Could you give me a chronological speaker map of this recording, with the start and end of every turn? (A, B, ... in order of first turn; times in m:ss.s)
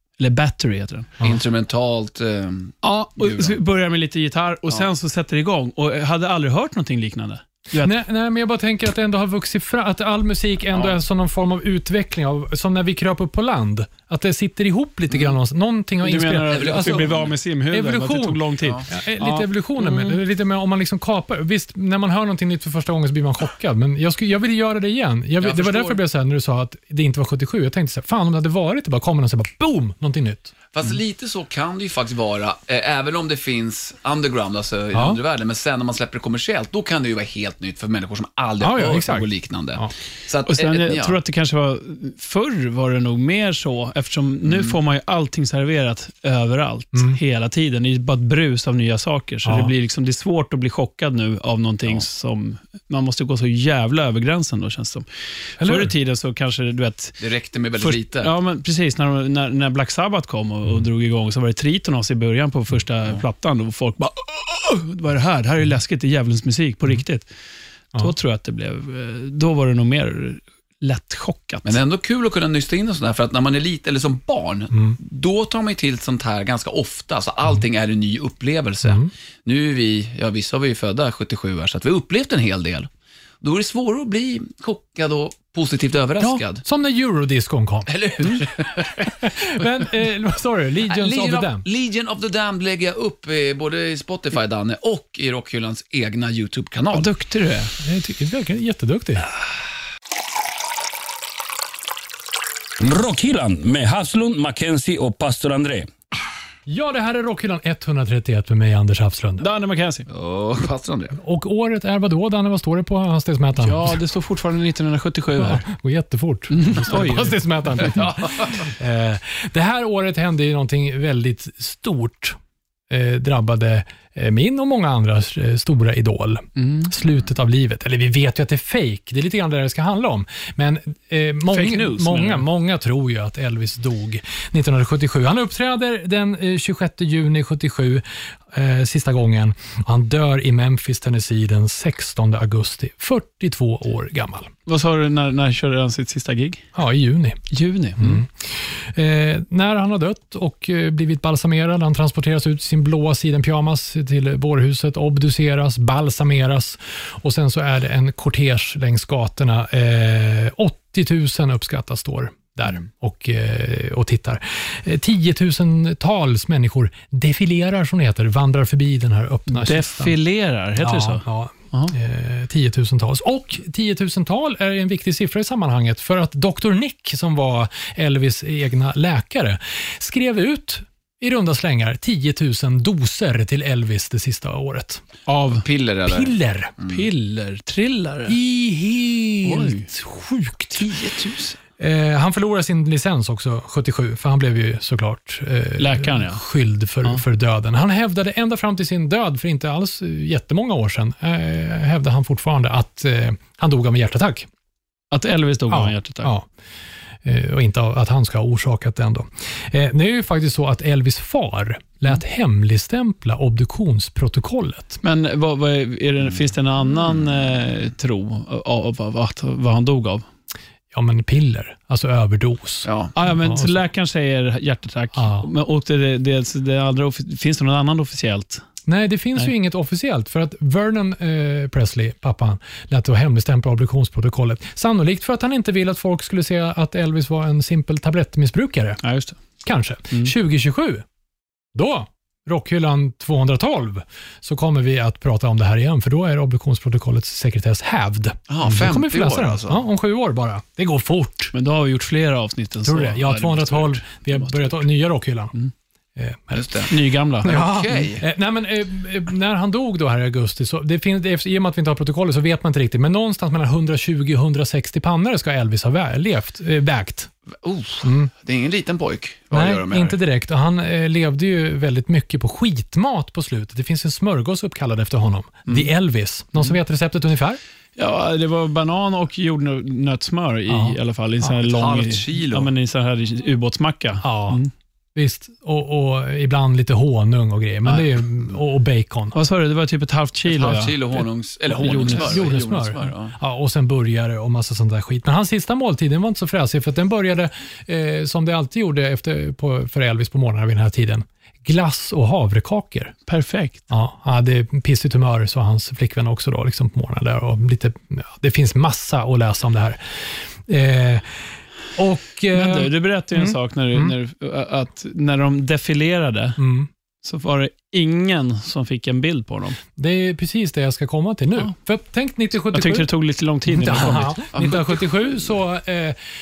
0:00.2-0:01.2 A
0:01.2-0:03.6 B
0:02.8-0:07.9 A
0:07.8-0:17.1 C
0:16.0-0:20.2 A
0:16.5-0:17.4 B
0:17.7-0:30.5 C
0:18.6-0:18.9 B
0:25.4-0:26.0 B
0:30.7-0:41.2 B
0:38.6-0:39.9 C
0:40.5-0:55.0 A
0:44.4-0:44.8 B
0:49.4-0:49.7 C
0:55.6-0:57.2 A
0:55.6-0:55.9 C
0:57.2-0:58.3 B
0:57.8-1:07.3 A
1:07.9-1:11.8 A
1:11.6-1:22.9 B
1:14.7-1:15.0 C
1:18.8-1:19.1 C
1:23.4-1:26.6 B
1:26.2-1:28.4 C
1:27.9-1:29.1 B
1:29.0-1:31.6 C
1:30.8-1:37.1 B
1:36.9-1:37.7 A
1:37.8-1:39.3 C
1:42.8-1:45.9 D
1:46.7-1:49.4 C
1:49.4-1:50.1 A
1:50.1-1:51.2 B
1:51.2-1:54.0 C
1:53.6-1:55.6 A
1:55.4-2:02.4 C
1:56.5-1:57.4 A
1:57.8-1:58.7 B
2:02.9-2:24.5 C
2:06.6-2:06.9 A
2:11.5-2:12.4 A
2:24.7-2:26.6 A
2:26.7-2:27.4 C
2:27.5-2:28.2 A
2:28.0-2:50.2 C
2:49.5-2:51.9 A
2:50.8-3:05.0 C
3:05.3-3:05.6 A
3:05.5-3:07.1 B
3:06.1-3:06.7 C
3:06.9-3:08.4 A
3:08.3-3:10.8 C
3:09.4-3:09.9 A
3:10.8-3:11.6 B
3:11.8-3:24.5 C
3:15.8-3:16.4 A
3:25.1-3:26.3 A
3:25.7-3:26.5 C
3:27.2-3:35.0 C
3:35.0-3:40.2 A
3:40.9-3:43.8 C
3:42.8-3:43.1 B
3:43.1-3:48.6 A
3:45.1-3:45.5 C
3:48.9-3:59.0 C
3:59.0-3:59.4 A
3:59.6-4:01.0 C
4:01.7-4:11.5 C
4:08.5-4:09.8 B
4:11.5-4:14.8 A
4:12.8-4:15.5 C
4:16.2-4:16.9 C
4:16.5-4:18.2 B
4:16.9-4:17.5 A
4:17.4-4:27.3 C
4:27.6-4:30.2 B
4:28.0-4:28.3 C
4:29.5-4:37.6 C
4:38.0-4:44.7 A
4:40.7-4:41.0 C
4:41.6-4:42.7 B
4:44.2-4:44.6 C
4:45.1-4:49.4 C
4:49.3-4:52.5 A
4:50.4-4:53.4 B
4:51.9-5:03.2 C
5:03.3-5:03.8 A
5:03.9-5:11.4 C
5:12.0-5:14.1 C
5:12.5-5:16.6 A
5:16.6-5:16.9 C
5:17.2-5:19.8 A
5:20.0-5:23.1 C
5:22.7-5:24.4 A
5:23.7-5:26.2 C
5:24.5-5:25.0 B